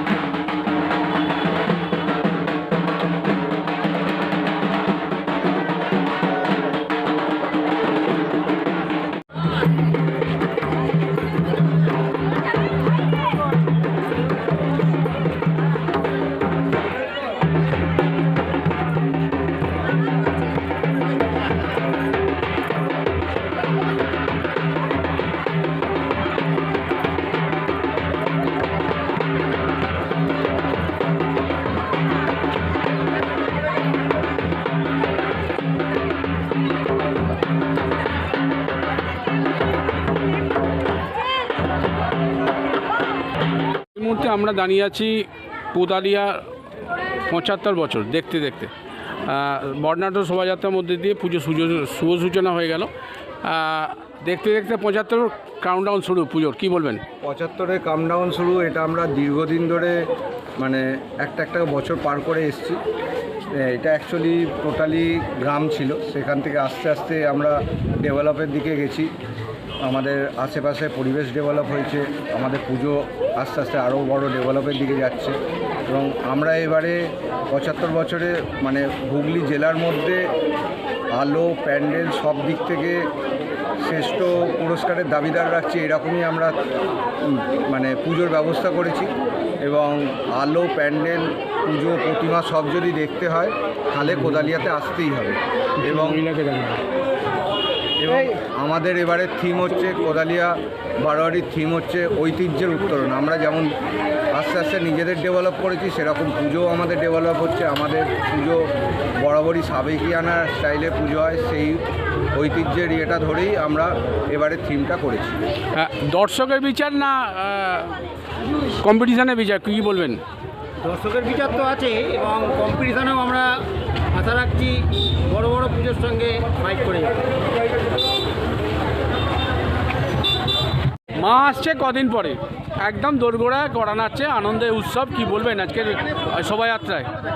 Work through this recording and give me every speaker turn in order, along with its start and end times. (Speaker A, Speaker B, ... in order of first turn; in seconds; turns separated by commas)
Speaker A: 44.0-46.5, Speaker A: 47.3-48.7, Speaker A: 49.3-52.9, Speaker A: 53.4-57.0, Speaker B: 57.2-60.1, Speaker B: 60.6-62.8, Speaker B: 63.5-69.1, Speaker B: 69.8-80.3, Speaker B: 81.1-83.1, Speaker B: 83.8-86.6, Speaker B: 87.2-96.3, Speaker A: 95.9-96.8, Speaker B: 98.0-103.7, Speaker B: 104.3-111.8, Speaker B: 112.3-115.3, Speaker A: 115.7-118.0, Speaker A: 118.8-120.2, Speaker C: 120.8-123.5, Speaker C: 124.1-127.2, Speaker A: 131.2-137.1